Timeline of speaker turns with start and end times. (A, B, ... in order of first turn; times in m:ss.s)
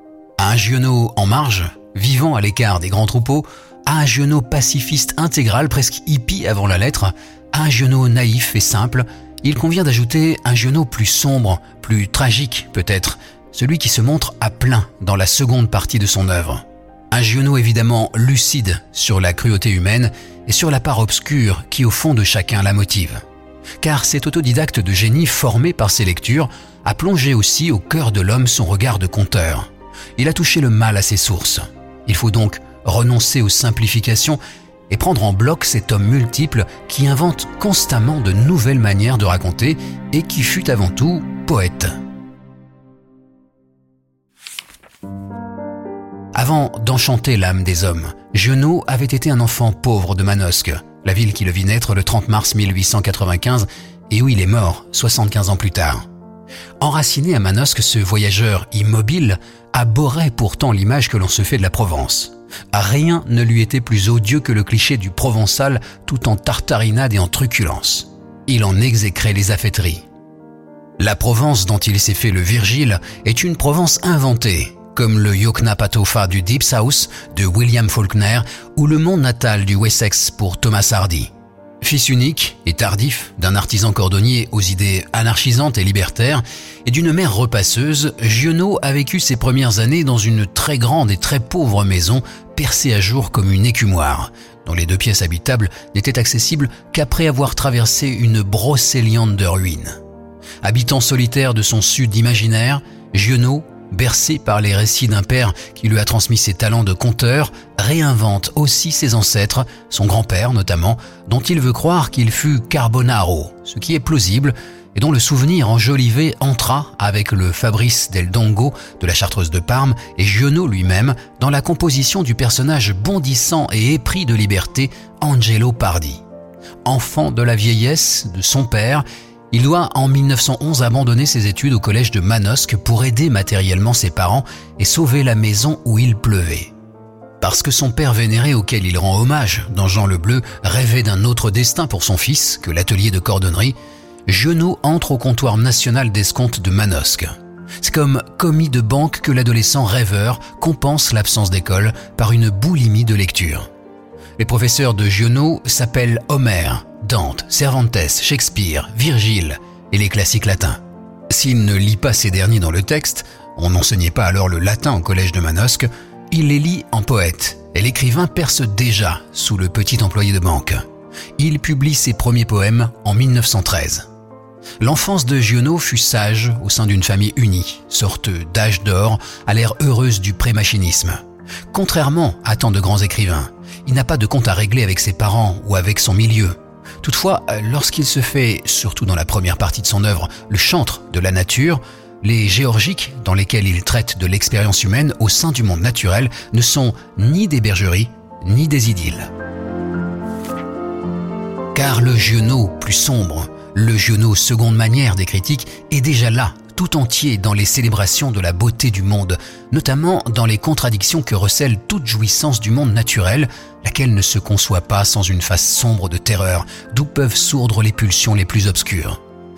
0:00.4-0:23.2 A
0:23.8-0:34.4 A
0:34.9-0:41.9 A
0:46.3-0:56.0 A
0:56.8-1:10.0 A
1:11.0-1:21.3 A
1:21.8-1:40.0 A
1:40.6-2:06.2 A
2:06.8-2:16.7 A
2:17.4-2:23.8 A
2:24.3-2:33.7 A
2:34.4-2:50.8 A
2:51.4-2:54.0 A
2:54.8-3:01.2 A
3:01.7-3:19.3 A
3:21.7-3:39.2 A